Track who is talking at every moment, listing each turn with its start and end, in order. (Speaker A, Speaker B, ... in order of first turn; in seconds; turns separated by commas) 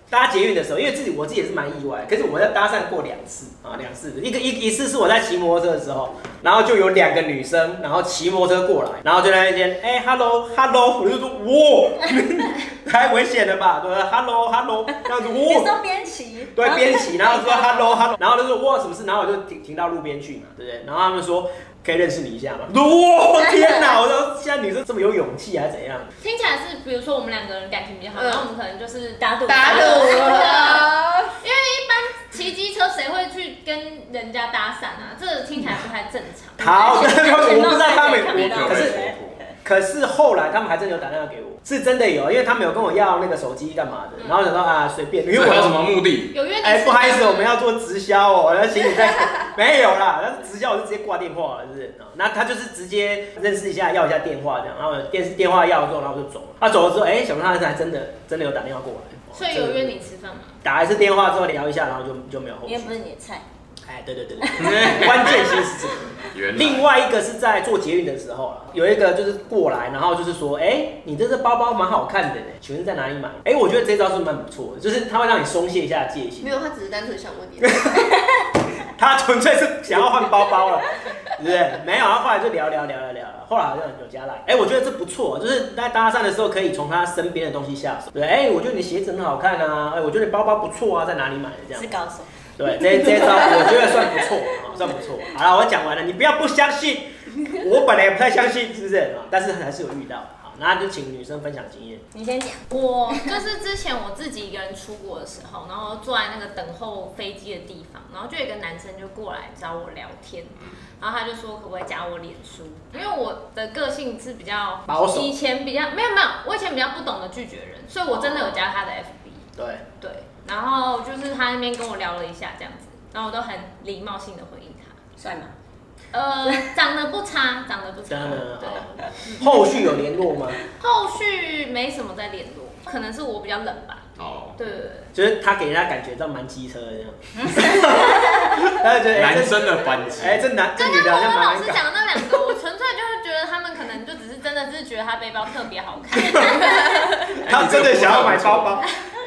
Speaker A: 0.1-15.7, Speaker B: 15.4-18.1, Speaker A: 16.6-26.1, Speaker B: 23.4-24.0, Speaker C: 26.2-30.9, Speaker D: 28.1-28.5, Speaker B: 29.2-30.7, Speaker D: 29.5-31.4, Speaker C: 31.4-38.6, Speaker A: 36.6-39.0, Speaker B: 36.8-39.2, Speaker E: 38.3-39.4, Speaker A: 39.6-45.8, Speaker C: 44.2-44.5, Speaker E: 45.3-46.3, Speaker C: 46.3-47.5, Speaker A: 46.6-60.0, Speaker C: 59.3-60.6, Speaker A: 60.6-63.0, Speaker B: 62.6-63.5, Speaker A: 63.9-76.6, Speaker B: 64.4-65.4, Speaker E: 64.6-65.6, Speaker E: 66.3-66.8, Speaker D: 76.4-78.1, Speaker A: 79.0-92.0, Speaker B: 91.7-94.1, Speaker A: 92.6-102.0, Speaker B: 102.1-103.3, Speaker C: 102.7-119.4, Speaker A: 114.9-115.3, Speaker A: 119.6-119.8, Speaker C: 120.0-125.0, Speaker B: 125.2-125.5, Speaker C: 126.1-129.5, Speaker A: 128.1-130.6, Speaker C: 130.8-134.0, Speaker E: 134.2-134.6, Speaker C: 134.6-135.1, Speaker A: 135.1-141.9, Speaker E: 139.1-140.5, Speaker C: 140.8-147.4, Speaker A: 147.4-148.9, Speaker E: 147.5-148.8